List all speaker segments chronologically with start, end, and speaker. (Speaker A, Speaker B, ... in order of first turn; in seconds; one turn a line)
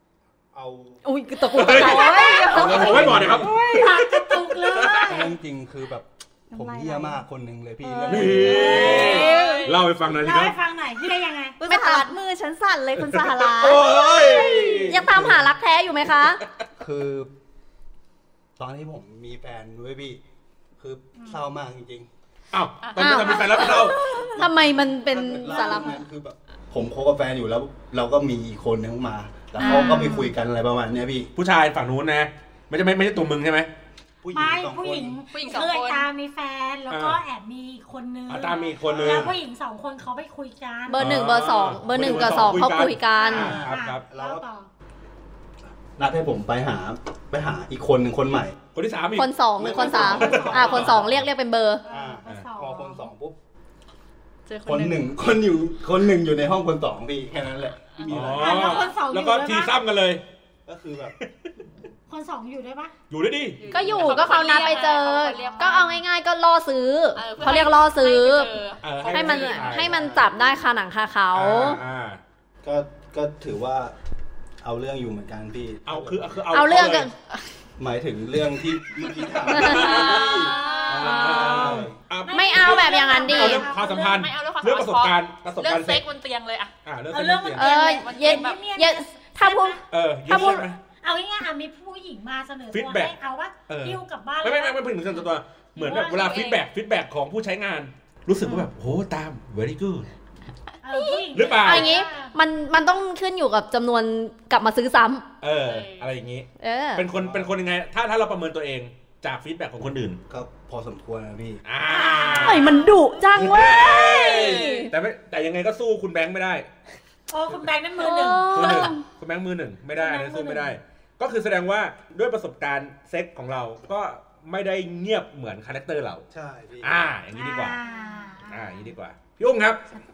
Speaker A: 0.5-3.5
Speaker B: 1.0-3.1
Speaker C: 1.5-5.2
Speaker D: 3.2-5.4
Speaker A: 5.0-9.2
Speaker E: 6.5-7.2
Speaker E: 7.8-9.6
Speaker C: 8.1-10.6
Speaker B: 8.3-9.7
Speaker D: 8.6-9.4
Speaker D: 10.0-11.6
Speaker E: 11.6-13.9
Speaker B: 11.6-12.1
Speaker C: 13.0-15.0
Speaker B: 13.9-16.4
Speaker A: 14.3-15.6
Speaker A: 16.8-17.3
Speaker A: 18.6-20.2
Speaker A: 20.8-22.1
Speaker C: 22.5-24.0
Speaker F: 22.8-24.1
Speaker B: 23.0-26.0
Speaker A: 24.2-31.3
Speaker D: 29.6-30.3
Speaker F: 29.6-30.1
Speaker C: 31.3-33.7
Speaker A: 34.2-35.2
Speaker D: 34.3-41.1
Speaker F: 35.3-36.1
Speaker C: 36.9-37.2
Speaker C: 38.3-39.3
Speaker A: 38.8-39.4
Speaker B: 40.9-43.6
Speaker C: 41.0-44.0
Speaker D: 43.1-44.7
Speaker A: 43.2-44.5
Speaker A: 46.0-48.5
Speaker C: 48.7-49.3
Speaker B: 49.1-51.8
Speaker A: 49.5-51.2
Speaker D: 49.7-50.8
Speaker C: 50.0-51.2
Speaker D: 51.9-53.1
Speaker A: 51.9-53.4
Speaker F: 54.5-55.1
Speaker A: 54.6-58.9
Speaker C: 58.1-60.2
Speaker D: 58.3-59.8
Speaker A: 60.6-61.2
Speaker D: 62.1-62.9
Speaker C: 63.1-64.1
Speaker F: 63.6-66.0
Speaker B: 63.7-71.8
Speaker F: 67.2-69.8
Speaker C: 68.8-69.9
Speaker A: 69.7-70.3
Speaker C: 71.3-72.2
Speaker A: 72.6-73.9
Speaker A: 74.6-76.3
Speaker C: 75.8-77.1
Speaker B: 76.5-77.1
Speaker A: 77.8-80.5
Speaker C: 79.5-80.3
Speaker B: 79.5-83.6
Speaker F: 79.9-81.5
Speaker D: 79.9-84.2
Speaker C: 80.8-86.0
Speaker A: 81.3-82.0
Speaker F: 83.6-86.7
Speaker C: 86.8-87.7
Speaker D: 87.1-95.2
Speaker B: 87.5-89.8
Speaker F: 87.7-88.6
Speaker C: 89.9-90.8
Speaker B: 90.3-90.6
Speaker C: 92.7-93.1
Speaker C: 93.7-100.1
Speaker D: 95.8-96.5
Speaker F: 95.8-96.6
Speaker D: 100.8-102.3
Speaker C: 101.3-101.9
Speaker B: 101.5-105.3
Speaker C: 105.4-110.2
Speaker F: 105.6-106.1
Speaker B: 106.6-107.0
Speaker A: 107.1-107.5
Speaker A: 110.3-111.6
Speaker C: 111.6-116.7
Speaker D: 111.9-113.0
Speaker B: 112.2-114.9
Speaker F: 114.3-114.9
Speaker D: 117.3-118.9
Speaker B: 118.0-119.0
Speaker C: 118.5-126.2
Speaker D: 120.0-120.8
Speaker A: 126.3-127.0
Speaker C: 126.8-127.8
Speaker D: 127.3-128.8
Speaker F: 127.9-128.3
Speaker C: 128.4-129.8